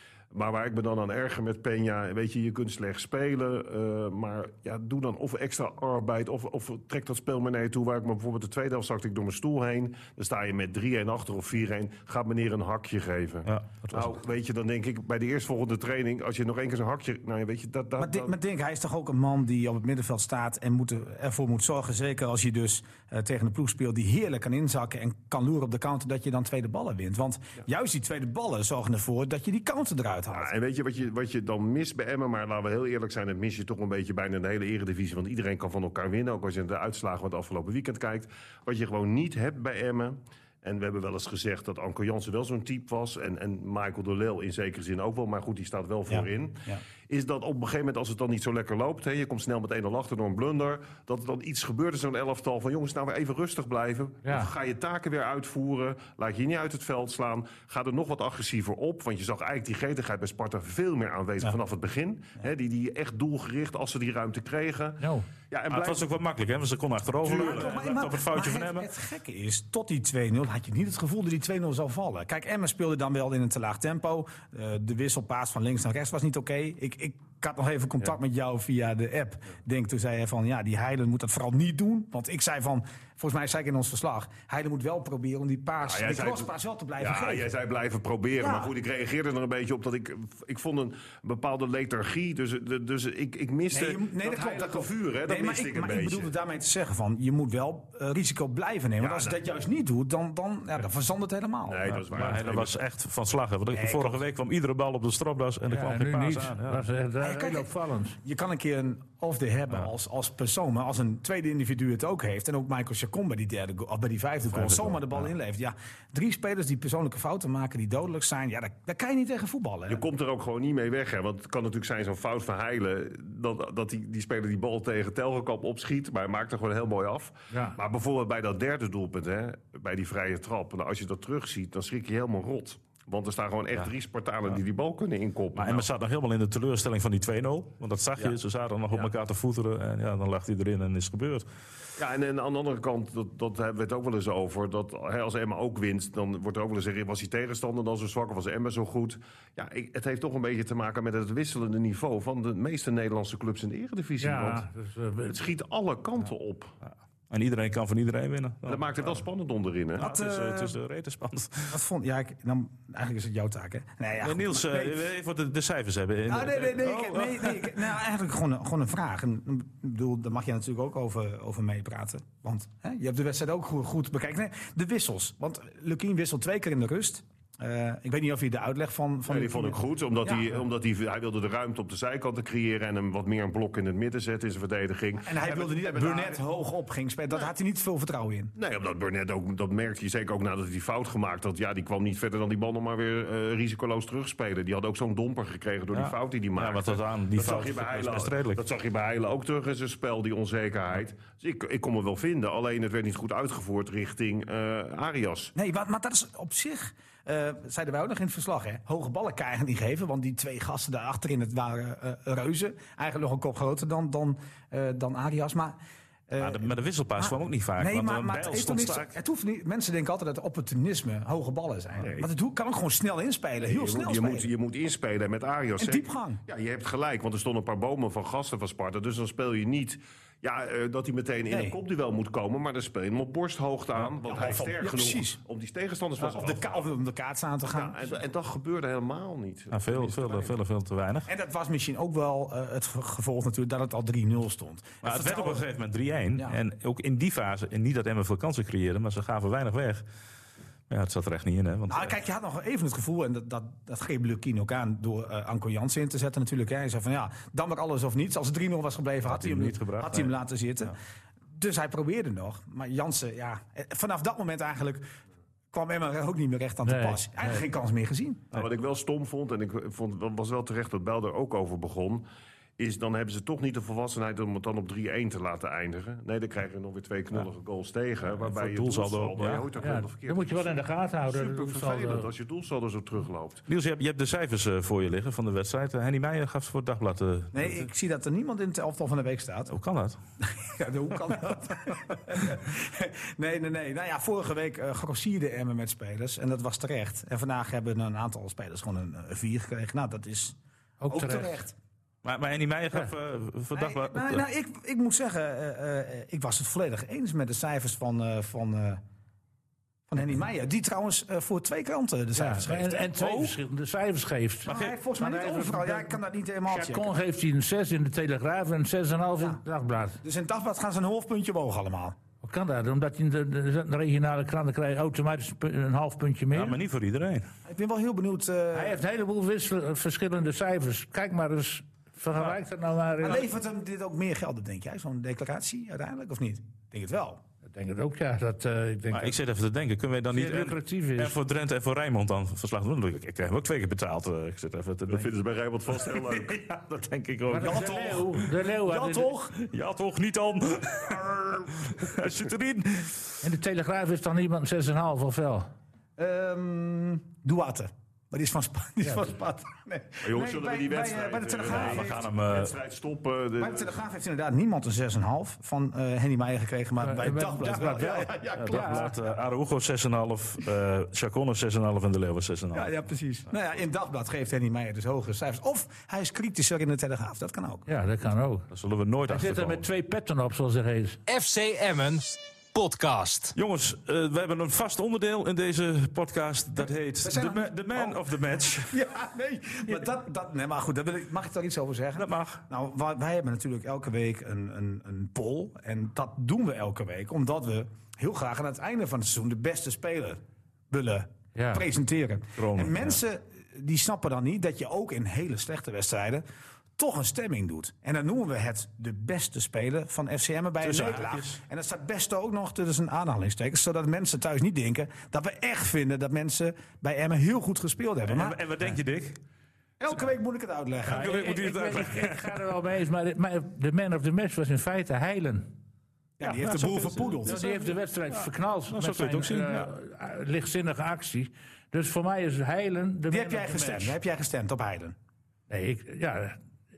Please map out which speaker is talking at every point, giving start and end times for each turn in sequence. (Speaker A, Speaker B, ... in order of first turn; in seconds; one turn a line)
Speaker A: 0.3-18.4
Speaker B: 13.5-14.1
Speaker C: 18.0-30.5
Speaker A: 30.3-66.1
Speaker C: 46.1-46.8
Speaker D: 54.2-54.5
Speaker D: 65.0-65.3
Speaker B: 65.7-68.9
Speaker C: 67.2-87.5
Speaker A: 67.2-67.8
Speaker A: 85.8-96.3
Speaker C: 88.4-88.7
Speaker C: 93.7-101.9
Speaker A: 99.0-99.4
Speaker A: 101.7-102.8
Speaker B: 102.1-106.9
Speaker C: 103.7-104.2
Speaker D: 105.7-108.2
Speaker C: 107.2-120.0
Speaker B: 114.5-115.3
Speaker A: 119.9-135.9
Speaker D: 127.5-127.8
Speaker B: 135.6-141.5
Speaker A: 142.0-154.7
Speaker D: 154.2-155.4
Speaker A: 155.3-156.8
Speaker B: 157.3-158.9
Speaker A: 158.7-160.1
Speaker C: 160.0-160.8
Speaker B: 160.0-161.8
Speaker C: 161.7-165.1
Speaker B: 164.2-167.7
Speaker C: 166.3-180.6
Speaker A: 179.3-186.4
Speaker C: 185.2-188.5
Speaker A: 188.6-205.5
Speaker B: 195.9-198.6
Speaker C: 205.6-215.8
Speaker C: 216.3-224.5
Speaker B: 216.4-219.1
Speaker A: 222.0-222.3
Speaker A: 223.6-236.9
Speaker C: 225.8-226.4
Speaker C: 231.5-231.8
Speaker C: 234.3-235.4
Speaker C: 236.2-238.2
Speaker A: 237.7-240.6
Speaker B: 239.7-241.3
Speaker C: 241.3-245.7
Speaker B: 245.0-250.0
Speaker B: 250.9-252.1
Speaker C: 251.9-261.0
Speaker B: 259.2-260.3
Speaker C: 261.5-265.1
Speaker C: 265.7-268.5
Speaker D: 266.9-267.6
Speaker A: 268.5-272.2
Speaker A: 272.8-283.6
Speaker B: 278.4-279.6
Speaker D: 279.8-282.3
Speaker B: 283.7-287.8
Speaker C: 287.5-289.7
Speaker B: 289.7-290.2
Speaker C: 290.4-300.6
Speaker D: 301.0-301.6
Speaker C: 301.1-301.8
Speaker B: 302.2-304.4
Speaker C: 303.7-309.0
Speaker C: 310.1-313.5
Speaker D: 312.3-320.2
Speaker C: 314.6-317.2
Speaker B: 314.7-314.9
Speaker C: 320.2-322.2
Speaker D: 322.4-326.8
Speaker B: 326.5-327.5
Speaker C: 327.6-329.0
Speaker D: 328.7-333.5
Speaker C: 333.2-337.4
Speaker D: 337.7-339.4
Speaker B: 339.1-345.3
Speaker D: 340.3-341.4
Speaker A: 345.1-346.6
Speaker B: 345.9-348.4
Speaker D: 347.5-349.3
Speaker C: 347.6-349.5
Speaker B: 349.5-353.4
Speaker D: 353.4-355.7
Speaker C: 356.2-362.3
Speaker D: 359.0-359.3
Speaker A: 360.2-364.0
Speaker B: 361.7-362.7
Speaker C: 363.6-368.9
Speaker D: 367.0-369.1
Speaker B: 368.5-372.9
Speaker C: 372.7-377.9
Speaker D: 377.9-378.7
Speaker B: 378.7-379.8
Speaker D: 379.3-381.2
Speaker E: 381.3-383.5
Speaker B: 383.6-389.0
Speaker C: 386.8-388.2
Speaker C: 388.8-406.4
Speaker B: 392.2-392.6
Speaker D: 401.6-401.9
Speaker B: 402.6-403.2
Speaker C: 407.0-418.6
Speaker B: 410.8-411.6
Speaker B: 418.3-419.4
Speaker C: 420.0-421.4
Speaker B: 421.1-422.5
Speaker D: 421.1-425.7
Speaker C: 426.4-427.7
Speaker B: 426.4-429.9
Speaker D: 427.4-434.2
Speaker C: 433.3-435.1
Speaker D: 435.7-436.6